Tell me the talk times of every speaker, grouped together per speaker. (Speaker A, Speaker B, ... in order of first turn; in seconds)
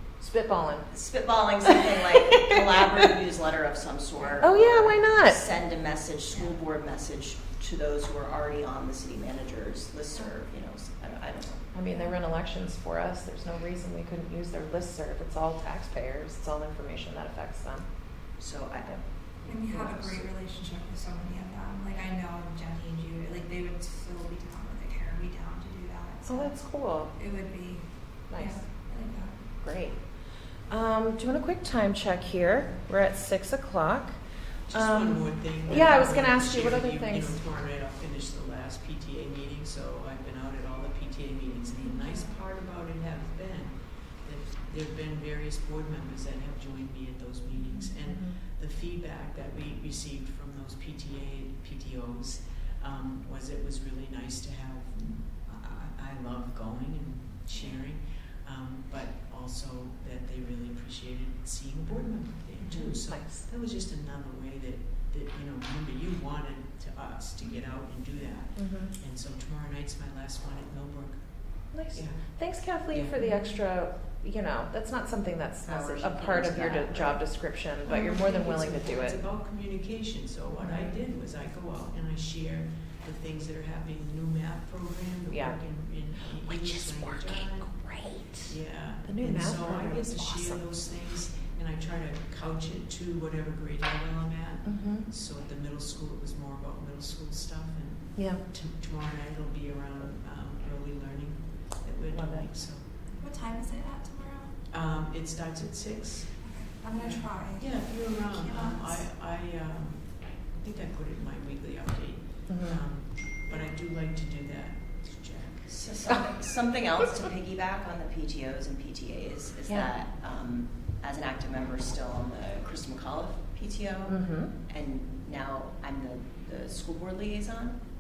Speaker A: 0.2-0.9, 4.4-5.4, 11.7-17.9, 26.2-27.1, 28.3-28.6, 29.6-30.1, 30.7-34.2, 34.7-37.4, 48.1-48.4, 62.8-63.4, 68.5-68.9, 71.7-79.2, 80.6-81.0, 85.3-85.6, 86.5-90.6, 94.7-95.1, 98.2-98.4, 102.1-102.5, 112.5-112.8, 124.1-124.5
Speaker B: 0.9-11.7, 18.4-20.2, 62.6-62.9, 75.7-77.2, 115.7-127.8
Speaker C: 19.5-27.8, 28.4-29.4, 41.9-42.2, 103.2-104.5, 106.4-109.0
Speaker D: 34.7-72.2, 72.9-73.2, 77.8-87.9, 88.4-103.0, 104.7-115.8